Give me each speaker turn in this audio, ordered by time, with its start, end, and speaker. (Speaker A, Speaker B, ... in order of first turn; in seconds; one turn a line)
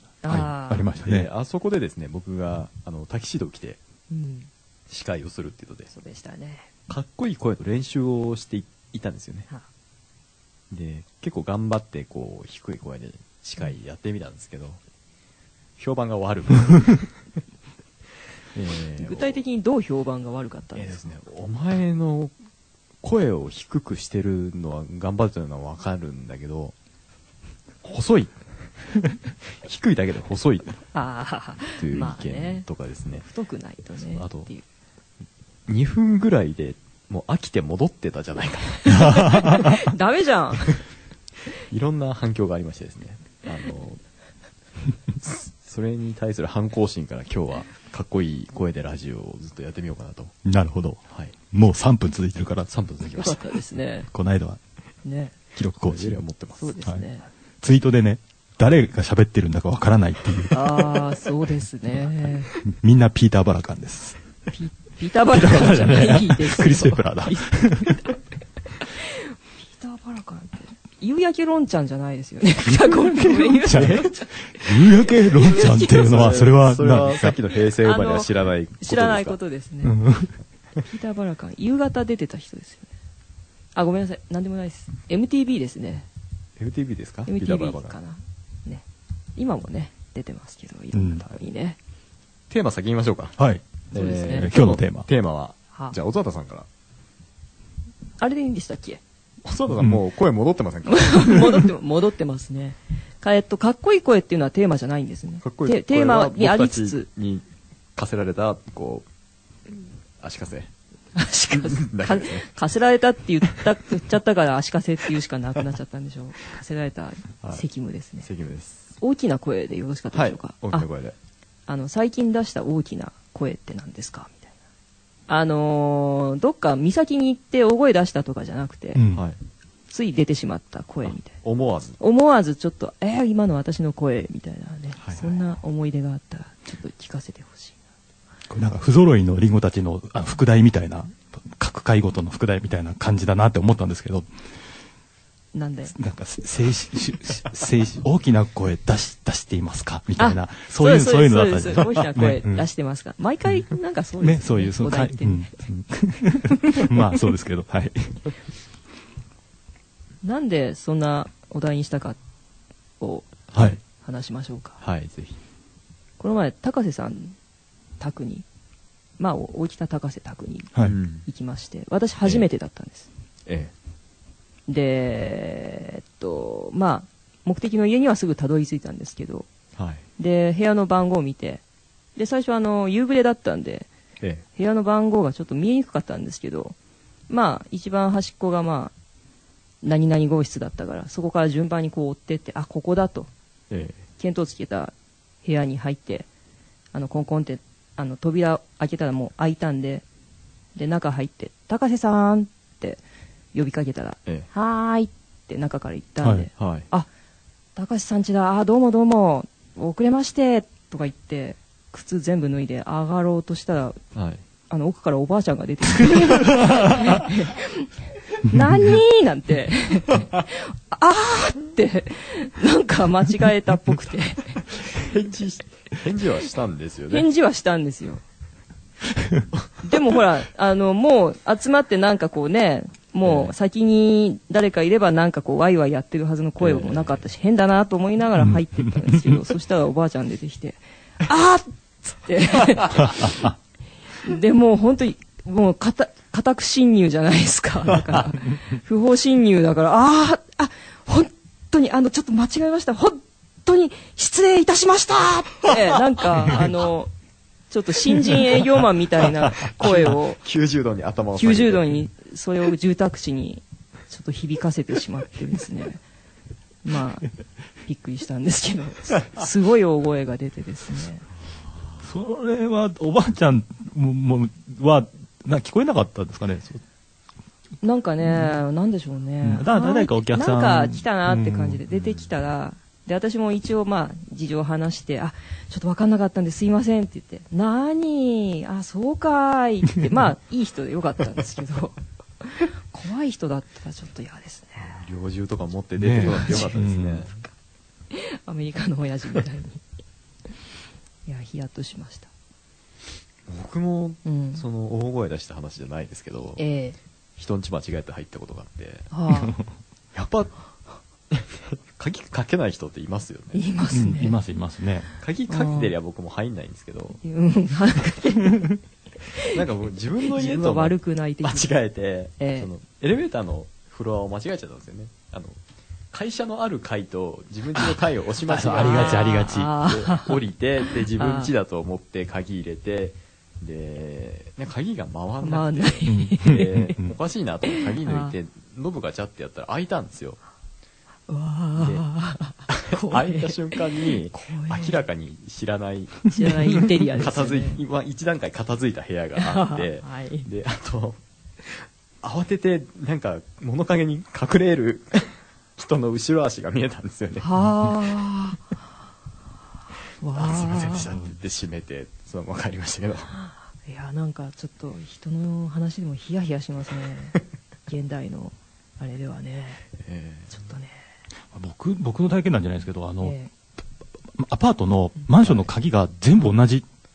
Speaker A: 0.2-0.9
Speaker B: 0.3-1.3
Speaker C: 0.9-3.8
Speaker A: 4.1-4.5
Speaker C: 4.9-5.9
Speaker A: 5.9-6.7
Speaker C: 6.9-9.5
Speaker C: 10.7-14.8
Speaker C: 15.8-17.1
Speaker C: 18.6-19.4
Speaker A: 19.0-21.0
Speaker C: 20.8-22.3
Speaker C: 23.0-26.7
Speaker C: 27.8-28.3
Speaker C: 29.6-30.8
Speaker A: 30.9-32.7
Speaker C: 31.8-33.2
Speaker A: 33.2-34.6
Speaker C: 34.1-34.5
Speaker C: 35.7-39.2
Speaker A: 38.8-40.8
Speaker B: 38.9-39.9
Speaker C: 41.7-44.0
Speaker C: 45.2-50.3
Speaker B: 50.5-52.7
Speaker C: 51.1-51.4
Speaker C: 52.7-53.4
Speaker A: 53.2-54.1
Speaker B: 54.1-54.6
Speaker A: 55.0-55.3
Speaker B: 55.6-56.2
Speaker C: 55.8-56.8
Speaker A: 56.6-57.3
Speaker B: 57.6-60.8
Speaker A: 60.5-62.5
Speaker B: 62.6-64.2
Speaker A: 64.5-68.1
Speaker B: 65.3-68.1
Speaker A: 68.8-76.3
Speaker B: 73.2-77.4
Speaker C: 75.5-79.4
Speaker A: 77.8-80.0
Speaker B: 79.8-80.3
Speaker A: 80.8-82.9
Speaker A: 83.8-86.1
Speaker C: 86.6-88.0
Speaker A: 87.3-88.8
Speaker A: 89.4-91.8
Speaker B: 90.9-91.2
Speaker C: 92.5-93.4
Speaker B: 93.4-93.7
Speaker C: 93.9-96.7
Speaker A: 93.9-94.5
Speaker B: 94.3-95.1
Speaker A: 98.2-99.0
Speaker C: 99.4-101.5
Speaker A: 100.9-107.1
Speaker C: 105.4-107.4
Speaker C: 108.0-109.1
Speaker C: 110.2-110.7
Speaker A: 111.2-118.3
Speaker C: 111.5-112.5
Speaker C: 118.2-118.8
Speaker A: 119.0-120.9
Speaker C: 120.1-121.1
Speaker A: 121.7-124.4
Speaker A: 125.3-129.0
Speaker B: 128.9-129.2
Speaker A: 129.9-131.4
Speaker C: 131.4-132.0
Speaker A: 132.0-137.8
Speaker C: 135.0-135.4
Speaker B: 138.5-144.3
Speaker A: 145.5-145.9
Speaker B: 145.9-152.7
Speaker A: 150.2-155.6
Speaker B: 154.2-158.2
Speaker A: 156.7-156.9
Speaker A: 160.2-162.2
Speaker A: 163.0-164.8
Speaker C: 163.5-163.8
Speaker C: 164.8-165.4
Speaker A: 166.2-167.4
Speaker A: 168.0-168.5
Speaker A: 169.2-170.7
Speaker C: 170.8-171.3
Speaker A: 171.3-173.1
Speaker C: 173.5-173.7
Speaker A: 174.7-179.5
Speaker C: 179.8-180.0
Speaker A: 180.2-181.6
Speaker A: 182.2-183.9
Speaker A: 184.6-186.8
Speaker A: 187.3-188.9
Speaker A: 189.8-193.3
Speaker C: 193.7-194.0
Speaker A: 194.2-196.3
Speaker A: 196.9-200.1
Speaker A: 200.8-203.0
Speaker A: 203.5-207.1
Speaker B: 206.2-206.5
Speaker C: 206.6-206.9
Speaker A: 207.8-214.0
Speaker C: 214.2-214.4
Speaker A: 214.7-224.7
Speaker B: 216.5-217.0
Speaker B: 218.5-219.0
Speaker C: 224.8-227.3
Speaker A: 227.1-228.2
Speaker A: 229.8-243.5
Speaker C: 233.2-233.5
Speaker C: 236.6-237.2
Speaker B: 238.4-239.4
Speaker B: 242.8-243.5
Speaker A: 244.2-257.1
Speaker A: 257.7-260.4
Speaker C: 259.5-261.9
Speaker A: 261.4-266.0
Speaker A: 266.8-267.3
Speaker A: 267.9-271.2
Speaker B: 272.0-276.8
Speaker A: 277.8-295.1
Speaker B: 278.2-278.6
Speaker B: 279.4-281.8
Speaker C: 281.9-282.2
Speaker C: 294.9-297.3
Speaker B: 296.0-297.3
Speaker A: 296.2-297.5
Speaker A: 298.1-299.8
Speaker A: 301.3-302.3
Speaker C: 303.5-306.6
Speaker A: 304.2-304.6
Speaker A: 306.6-307.0
Speaker C: 307.4-309.1
Speaker A: 309.1-309.6
Speaker C: 310.1-310.6
Speaker C: 311.3-313.6
Speaker A: 313.5-314.4
Speaker B: 313.9-315.1
Speaker C: 315.2-317.2
Speaker A: 315.5-315.9
Speaker A: 317.2-319.6
Speaker C: 319.5-325.6
Speaker A: 320.3-321.7
Speaker A: 322.4-322.7
Speaker C: 326.1-340.4
Speaker B: 328.5-329.7
Speaker A: 328.7-331.5
Speaker A: 335.4-336.9
Speaker B: 336.1-337.1
Speaker A: 337.7-338.3
Speaker A: 341.3-345.1
Speaker C: 341.8-342.1
Speaker C: 342.7-357.5
Speaker A: 346.3-347.8
Speaker A: 349.4-350.5
Speaker A: 357.4-358.7
Speaker A: 360.2-361.2
Speaker C: 360.4-363.3
Speaker A: 363.3-369.8
Speaker C: 370.0-370.6
Speaker A: 370.5-370.9
Speaker B: 371.5-373.4
Speaker A: 373.2-373.5
Speaker B: 374.4-376.9